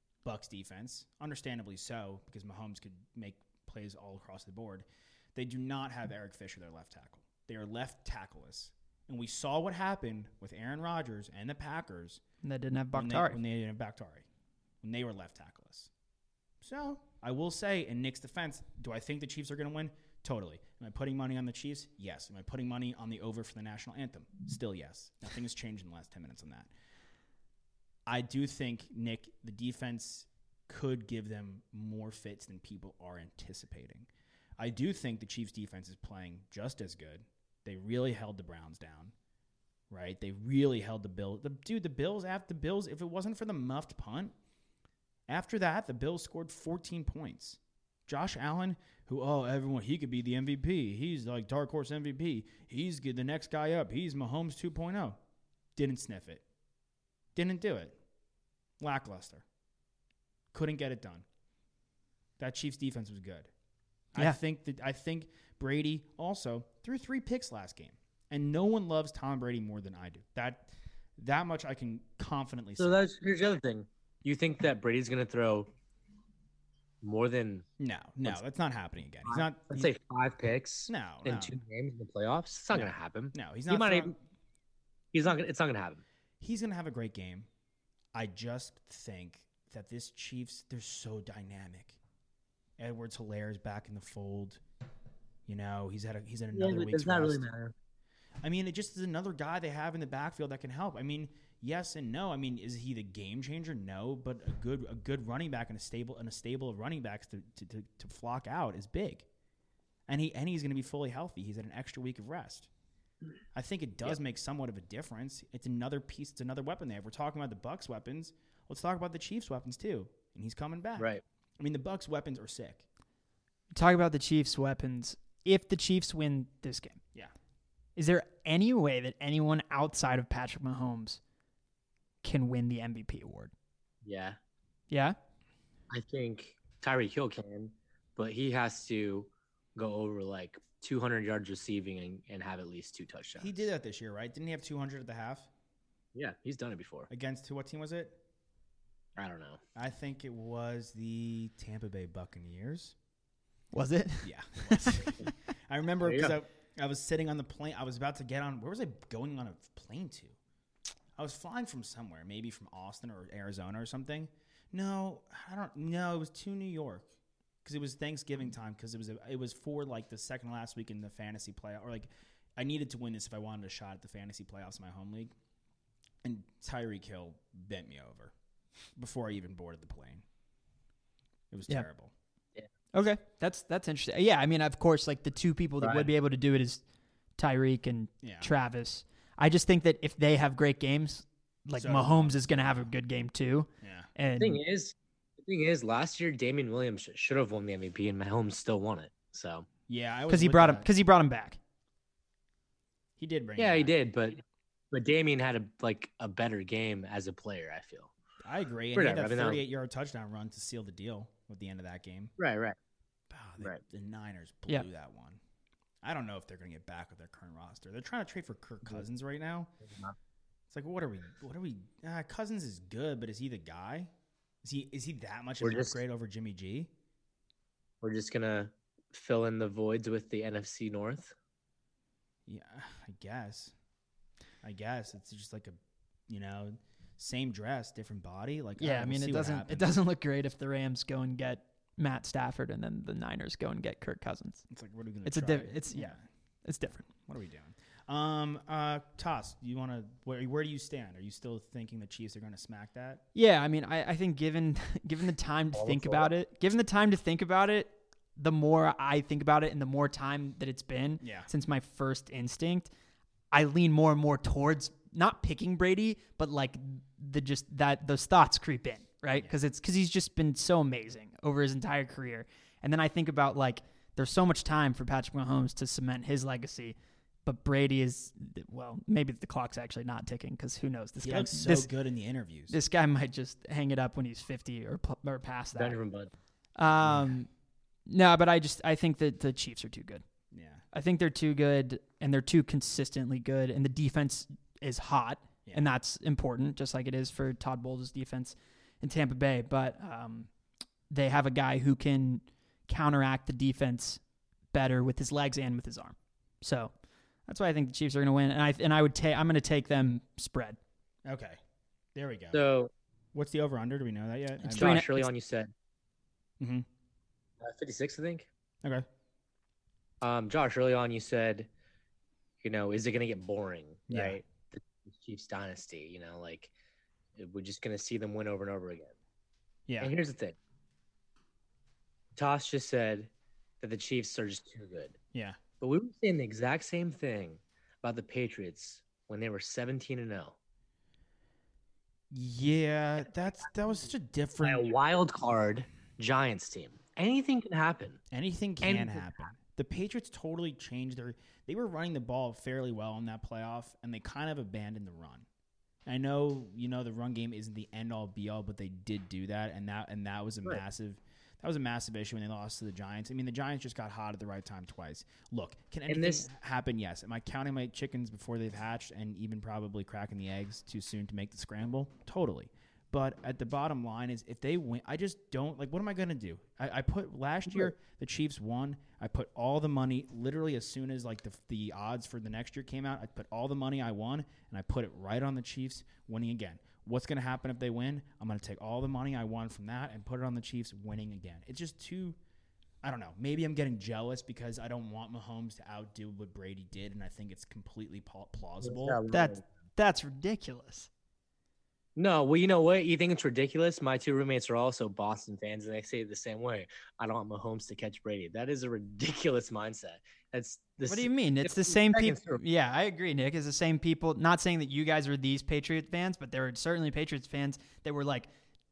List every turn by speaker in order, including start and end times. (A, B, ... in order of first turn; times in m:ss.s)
0:00.2-0:12.2 A
0:12.4-0:13.4 B
0:12.9-0:14.3 A
0:14.8-0:15.9 A
0:16.6-0:26.7 A
0:28.1-0:39.1 A
0:39.9-0:44.4 A
0:45.3-0:55.2 A
0:55.8-0:56.4 A
0:57.4-0:58.0 A
0:58.8-0:59.4 A
1:00.5-1:01.2 A
1:02.4-1:03.5 A
1:04.1-1:13.1 A
1:12.8-1:15.7 C
1:17.0-1:17.7 C
1:17.8-1:19.9 A
1:19.3-1:24.2 C
1:20.9-1:21.6 A
1:22.7-1:24.1 A
1:25.1-1:26.0 C
1:26.4-1:27.5 A
1:28.1-1:32.0 A
1:32.8-1:34.6 A
1:35.5-1:37.5 A
1:36.5-1:37.7 C
1:38.4-1:49.3 A
1:50.1-1:52.7 A
1:53.5-2:02.9 A
2:03.7-2:07.0 B
2:08.0-2:11.2 B
2:12.2-2:13.5 B
2:14.0-2:14.4 C
2:14.9-2:15.2 B
2:15.9-2:23.6 C
2:23.4-2:25.5 A
2:26.2-2:27.1 C
2:27.1-2:28.2 A
2:29.2-2:29.6 C
2:29.8-2:33.0 A
2:33.7-2:35.1 B
2:34.2-2:40.4 A
2:36.0-2:36.4 C
2:41.2-2:47.1 A
2:47.6-2:55.3 A
2:56.2-2:58.3 A
2:59.0-3:00.2 A
3:01.5-3:02.1 A
3:02.9-3:06.8 B
3:05.8-3:06.1 C
3:07.4-3:14.6 B
3:08.2-3:08.5 A
3:11.8-3:12.9 A
3:13.8-3:14.1 A
3:14.4-3:19.7 C
3:19.9-3:20.9 A
3:20.3-3:21.6 B
3:23.2-3:23.9 A
3:23.6-3:24.4 C
3:24.9-3:28.1 C
3:28.4-3:32.3 A
3:29.0-3:29.6 C
3:32.4-3:32.8 C
3:33.3-3:35.4 A
3:36.0-3:39.7 A
3:39.8-3:40.2 C
3:40.7-3:44.1 A
3:44.6-3:46.9 A
3:45.6-3:46.0 C
3:48.0-3:51.3 C
3:52.5-3:53.7 A
3:54.6-4:00.0 A
3:58.8-4:04.6 B
4:04.7-4:06.2 A
4:05.2-4:06.1 B
4:06.6-4:07.1 B
4:07.1-4:13.2 A
4:13.4-4:22.9 B
4:15.8-4:16.3 C
4:21.2-4:21.5 A
4:23.5-4:41.9 B
4:41.2-4:42.8 A
4:42.7-4:46.0 B
4:45.8-4:46.3 C
4:46.8-4:47.5 B
4:47.0-4:47.4 A
4:48.1-4:50.2 B
4:50.5-4:50.8 A
4:50.9-5:00.5 B
4:55.7-4:55.9 A
5:01.1-5:04.2 B
5:04.7-5:06.9 B
5:07.5-5:10.8 B
5:11.3-5:11.6 A
5:12.2-5:12.6 A
5:12.5-5:12.9 C
5:13.3-5:15.0 A
5:14.7-5:15.3 B
5:14.7-5:15.7 C
5:16.6-5:16.9 A
5:17.6-5:18.5 C
5:20.2-5:21.7 C
5:22.6-5:26.7 C
5:24.1-5:24.4 A
5:27.4-5:29.1 C
5:29.9-5:30.1 A
5:30.0-5:30.6 C
5:32.4-5:33.3 C
5:33.8-5:35.2 C
5:35.3-5:35.6 A
5:35.8-5:40.6 C
5:42.3-5:44.9 A
5:44.6-5:48.2 C
5:48.3-5:55.5 A
5:48.8-5:49.5 C
5:56.1-6:32.4 A
6:06.1-6:06.5 C
6:33.0-6:39.2 A
6:38.8-6:39.6 C
6:39.3-6:41.1 B
6:42.2-6:52.6 C
6:51.1-6:58.5 B